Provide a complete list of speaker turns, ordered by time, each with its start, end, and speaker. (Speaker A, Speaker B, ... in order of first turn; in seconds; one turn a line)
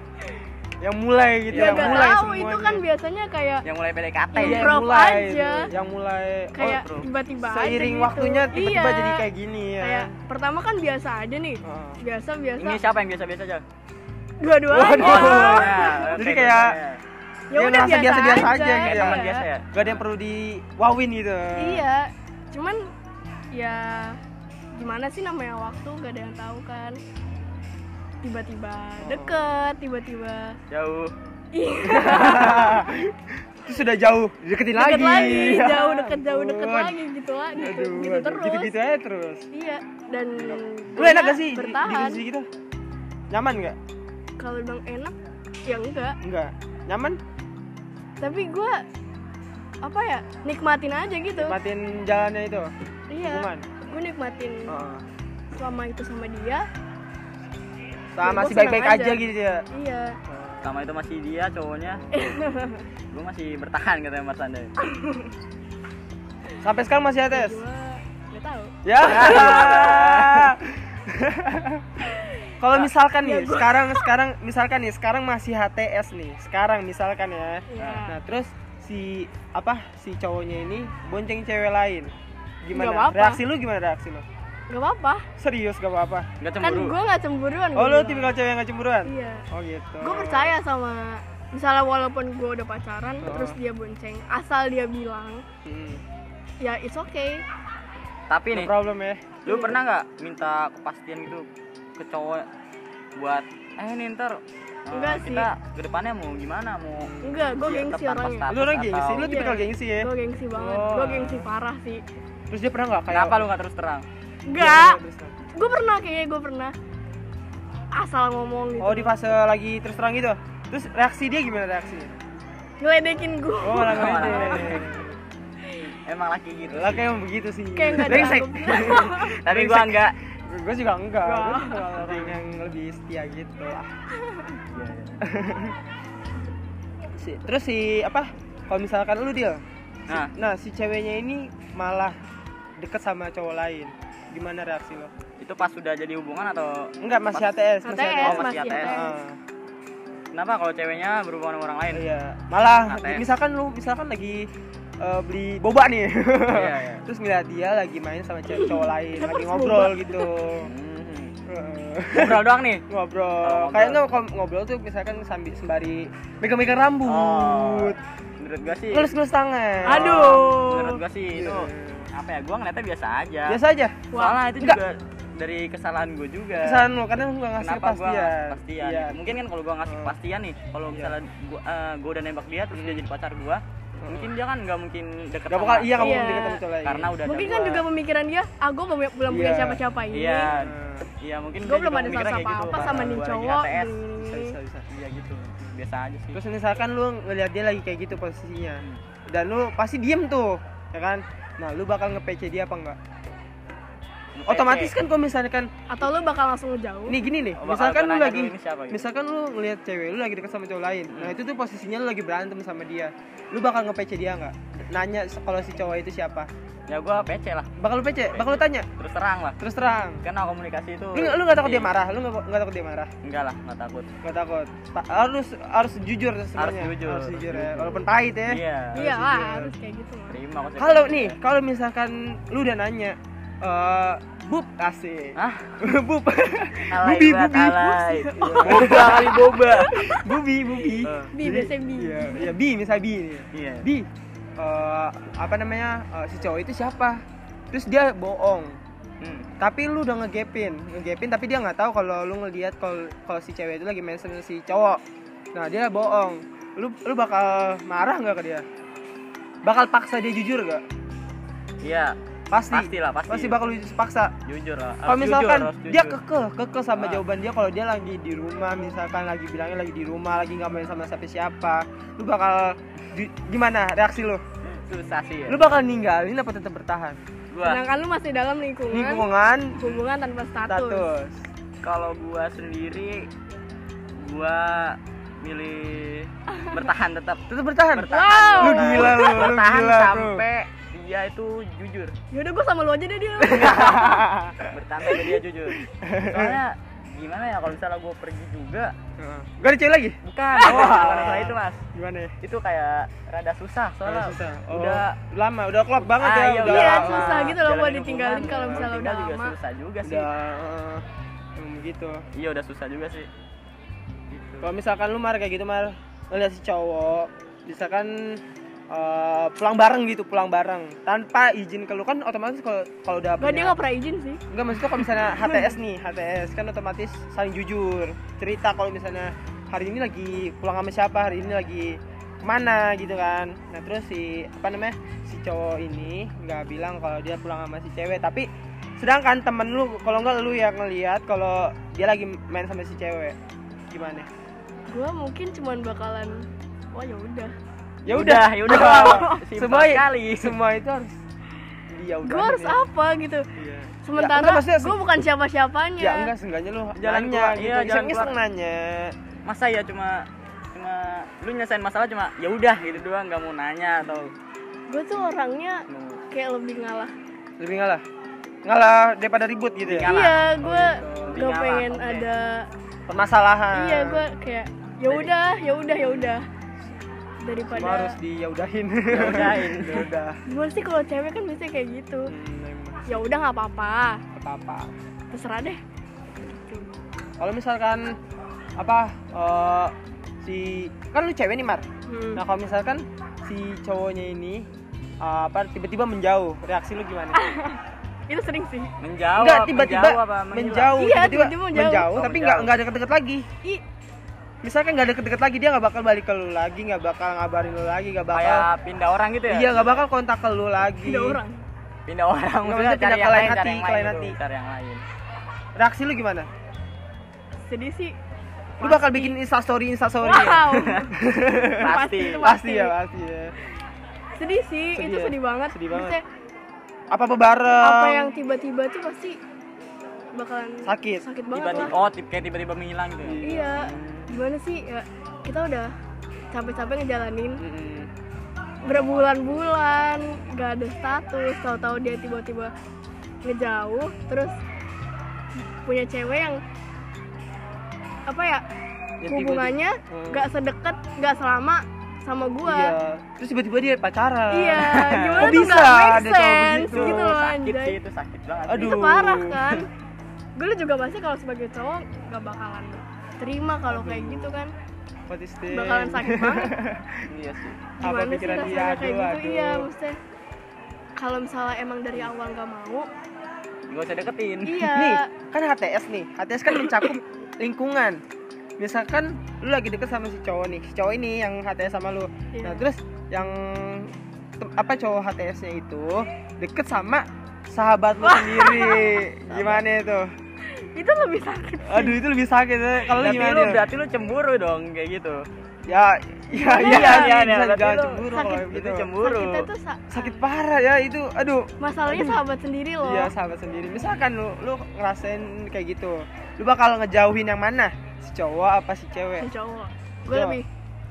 Speaker A: 0.8-2.8
Speaker B: 1.5-2.1
Speaker C: 1.5-3.6
Speaker B: 3.6-4.7
Speaker C: 4.3-5.7
Speaker A: 4.4-6.8
Speaker C: 6.5-9.2
Speaker B: 6.6-7.1
Speaker A: 7.4-10.1
Speaker C: 9.8-12.8
Speaker A: 11.6-12.0
Speaker B: 12.6-13.6
Speaker C: 14.4-16.3
Speaker A: 14.7-16.8
Speaker B: 15.0-17.0
Speaker C: 17.5-19.4
Speaker A: 17.5-21.9
Speaker B: 18.8-20.0
Speaker C: 21.6-22.9
Speaker C: 23.5-24.2
Speaker C: 24.7-27.0
Speaker C: 28.2-30.6
Speaker A: 29.0-29.5
Speaker B: 30.7-31.1
Speaker C: 31.5-32.9
Speaker A: 31.8-37.0
Speaker C: 34.7-38.7
Speaker A: 37.5-39.5
Speaker C: 39.5-42.2
Speaker A: 40.4-42.5
Speaker A: 43.3-43.8
Speaker C: 44.4-45.1
Speaker C: 45.6-46.2
Speaker A: 46.2-47.2
Speaker C: 48.2-48.8
Speaker C: 49.8-51.6
Speaker A: 51.4-53.7
Speaker C: 53.1-54.8
Speaker A: 54.7-55.0
Speaker C: 55.5-56.6
Speaker A: 58.1-59.6
Speaker C: 58.2-59.2
Speaker C: 59.7-60.2
Speaker A: 60.3-60.7
Speaker B: 60.6-62.0
Speaker A: 61.9-62.2
Speaker C: 62.1-62.8
Speaker B: 63.1-64.7
Speaker C: 64.8-65.3
Speaker A: 66.6-67.6
Speaker C: 67.3-69.8
Speaker A: 68.8-72.0
Speaker B: 69.0-70.5
Speaker C: 72.1-72.5
Speaker A: 72.6-82.1
Speaker C: 73.2-74.0
Speaker C: 77.7-78.1
Speaker A: 82.6-84.2
Speaker C: 82.7-83.4
Speaker C: 84.7-85.3
Speaker A: 85.4-86.3
Speaker B: 86.4-87.0
Speaker C: 86.6-88.3
Speaker A: 87.7-90.5
Speaker C: 89.0-89.4
Speaker C: 90.0-95.4
Speaker A: 93.2-93.6
Speaker A: 95.6-96.0
Speaker C: 96.6-97.4
Speaker B: 98.3-98.7
Speaker A: 98.5-99.4
Speaker B: 99.4-101.5
Speaker C: 99.5-99.7
Speaker B: 102.0-102.5
Speaker B: 103.2-109.3
Speaker C: 104.9-105.5
Speaker A: 106.9-107.5
Speaker C: 107.2-108.5
Speaker A: 108.5-111.5
Speaker C: 109.2-112.0
Speaker A: 112.5-113.5
Speaker B: 113.1-114.0
Speaker C: 114.5-115.0
Speaker A: 114.6-115.3
Speaker C: 115.5-116.7
Speaker C: 117.9-119.1
Speaker A: 118.8-122.1
Speaker C: 122.8-124.8
Speaker A: 123.6-125.2
Speaker B: 123.9-125.0
Speaker B: 126.0-127.0
Speaker A: 126.7-133.9
Speaker C: 127.7-129.3
Speaker B: 128.0-130.1
Speaker C: 131.2-131.9
Speaker B: 132.1-132.3
Speaker C: 134.1-134.6
Speaker B: 134.7-135.2
Speaker A: 135.2-135.8
Speaker A: 137.1-142.2
Speaker A: 142.8-145.1
Speaker B: 145.4-147.5
Speaker A: 147.0-149.4
Speaker C: 147.8-149.2
Speaker B: 148.2-149.0
Speaker B: 150.3-152.0
Speaker A: 151.9-154.5
Speaker B: 152.9-153.2
Speaker A: 155.0-160.7
Speaker B: 156.5-157.0
Speaker C: 158.5-160.3
Speaker B: 160.6-161.3
Speaker A: 161.5-168.0
Speaker B: 162.1-162.8
Speaker B: 163.4-164.0
Speaker B: 167.1-169.1
Speaker A: 168.9-170.6
Speaker C: 169.8-171.0
Speaker B: 169.9-173.6
Speaker A: 171.3-172.1
Speaker A: 173.5-174.1
Speaker C: 174.1-174.4
Speaker B: 174.1-176.9
Speaker A: 176.6-179.2
Speaker B: 177.6-187.8
Speaker A: 179.8-180.1
Speaker A: 182.7-183.1
Speaker A: 184.0-184.3
Speaker A: 185.5-187.1
Speaker C: 186.0-186.6
Speaker C: 187.2-190.5
Speaker A: 189.3-189.8
Speaker B: 190.1-194.0
Speaker A: 190.5-191.1
Speaker C: 191.7-194.5
Speaker A: 192.7-193.2
Speaker A: 194.2-194.8
Speaker B: 194.9-196.4
Speaker A: 196.3-203.0
Speaker B: 204.4-204.9
Speaker A: 204.5-205.7
Speaker C: 205.9-207.2
Speaker A: 207.1-216.5
Speaker B: 207.6-209.0
Speaker B: 211.1-211.3
Speaker B: 216.9-217.7
Speaker A: 217.8-218.9
Speaker B: 218.3-219.6
Speaker A: 219.6-220.2
Speaker B: 220.2-221.9
Speaker A: 221.1-223.1
Speaker B: 223.2-224.1
Speaker A: 224.2-229.7
Speaker B: 226.6-229.0
Speaker C: 228.9-230.4
Speaker B: 230.3-231.3
Speaker A: 230.8-248.8
Speaker B: 235.4-235.7
Speaker B: 236.9-240.2
Speaker C: 237.9-240.2
Speaker B: 241.0-241.3
Speaker C: 241.3-242.5
Speaker B: 243.5-243.9
Speaker B: 249.2-249.5
Speaker A: 249.6-255.0
Speaker A: 255.5-258.6
Speaker A: 259.6-260.8
Speaker B: 261.8-262.1
Speaker A: 262.5-264.3
Speaker B: 262.7-263.6
Speaker B: 264.4-266.2
Speaker A: 265.0-274.4
Speaker B: 266.9-267.2
Speaker B: 274.8-275.6
Speaker A: 275.5-277.2
Speaker B: 277.5-277.8
Speaker C: 277.6-279.2
Speaker A: 278.9-279.8
Speaker C: 279.8-281.1
Speaker A: 280.7-281.4
Speaker B: 281.8-283.3
Speaker B: 284.1-292.1
Speaker C: 286.5-286.8
Speaker A: 287.5-290.4
Speaker C: 288.1-289.5
Speaker C: 292.3-294.2
Speaker B: 293.5-298.9
Speaker A: 293.5-294.7
Speaker C: 295.1-295.3
Speaker A: 295.8-296.6
Speaker A: 299.2-302.3
Speaker B: 300.2-301.8
Speaker C: 300.6-301.0
Speaker B: 302.4-305.1
Speaker A: 304.0-307.6
Speaker B: 306.1-310.3
Speaker C: 306.6-309.5
Speaker A: 308.4-308.9
Speaker A: 310.0-311.0
Speaker A: 311.6-312.2
Speaker B: 312.3-313.3
Speaker B: 314.3-314.7
Speaker A: 314.6-323.8
Speaker C: 323.4-324.4
Speaker A: 324.5-338.5
Speaker C: 325.0-325.7
Speaker A: 339.0-343.4
Speaker A: 343.9-344.3
Speaker C: 344.9-347.5
Speaker A: 348.0-351.2
Speaker B: 348.1-350.6
Speaker C: 348.8-349.4
Speaker A: 351.9-352.8
Speaker C: 352.2-353.4
Speaker A: 353.6-355.0
Speaker C: 354.0-356.3
Speaker A: 356.0-359.1
Speaker B: 357.0-358.3
Speaker B: 359.4-364.3
Speaker A: 364.0-364.3
Speaker C: 364.9-367.1
Speaker B: 365.9-366.2
Speaker A: 367.6-368.0
Speaker A: 368.6-371.5
Speaker B: 369.9-372.3
Speaker C: 370.1-372.7
Speaker A: 373.1-374.3
Speaker C: 373.7-376.4
Speaker A: 376.0-376.3
Speaker C: 377.4-378.2
Speaker A: 377.7-380.4
Speaker B: 379.1-380.1
Speaker C: 380.5-382.3
Speaker A: 382.3-383.2
Speaker C: 383.1-384.2
Speaker A: 384.3-384.9
Speaker C: 385.3-385.8
Speaker C: 386.4-386.9
Speaker A: 387.4-388.1
Speaker A: 388.8-391.8
Speaker C: 392.1-392.4
Speaker A: 392.4-394.6
Speaker A: 395.2-397.4
Speaker C: 397.3-398.9
Speaker B: 399.0-401.0
Speaker A: 399.3-403.5
Speaker C: 400.9-402.2
Speaker B: 402.1-402.7
Speaker A: 404.6-408.7
Speaker B: 408.3-410.0
Speaker A: 409.5-411.4
Speaker C: 411.0-411.6
Speaker B: 412.1-415.0
Speaker A: 412.6-414.4
Speaker A: 415.8-416.5
Speaker C: 417.7-418.1
Speaker C: 418.8-419.3
Speaker A: 418.8-423.5
Speaker C: 420.2-421.1
Speaker B: 421.8-422.4
Speaker C: 421.8-422.9
Speaker C: 424.4-426.2
Speaker A: 424.9-426.2
Speaker A: 427.1-428.4
Speaker C: 427.8-429.4
Speaker C: 430.3-431.9
Speaker A: 430.8-431.2
Speaker B: 431.5-433.4
Speaker A: 433.2-434.3
Speaker C: 433.4-435.9
Speaker C: 436.5-437.6
Speaker A: 437.6-438.1
Speaker B: 438.8-439.6
Speaker C: 438.8-442.7
Speaker C: 443.4-444.6
Speaker C: 445.8-446.6
Speaker C: 448.3-448.6
Speaker A: 449.2-450.5
Speaker C: 449.2-452.9
Speaker A: 452.6-457.3
Speaker C: 454.5-458.0
Speaker B: 454.9-455.6
Speaker B: 456.9-459.0
Speaker A: 458.7-459.9
Speaker C: 458.8-459.9
Speaker C: 460.6-464.7
Speaker A: 463.9-464.6
Speaker A: 465.3-467.3
Speaker C: 465.7-466.7
Speaker B: 467.3-467.8
Speaker A: 468.0-469.9
Speaker C: 468.0-470.1
Speaker C: 471.2-473.1
Speaker B: 473.9-474.9
Speaker C: 474.6-475.3
Speaker A: 474.9-478.2
Speaker C: 476.7-477.2
Speaker A: 478.8-490.3
Speaker C: 482.5-482.8
Speaker C: 488.2-489.2
Speaker B: 489.5-489.8
Speaker C: 490.6-492.2
Speaker A: 491.8-493.8
Speaker B: 493.1-495.4
Speaker A: 495.8-499.1
Speaker C: 496.5-497.3
Speaker B: 496.7-499.7
Speaker C: 498.3-500.4
Speaker A: 500.1-502.4
Speaker C: 501.8-503.3
Speaker A: 503.0-509.5
Speaker C: 509.4-510.6
Speaker A: 510.3-510.6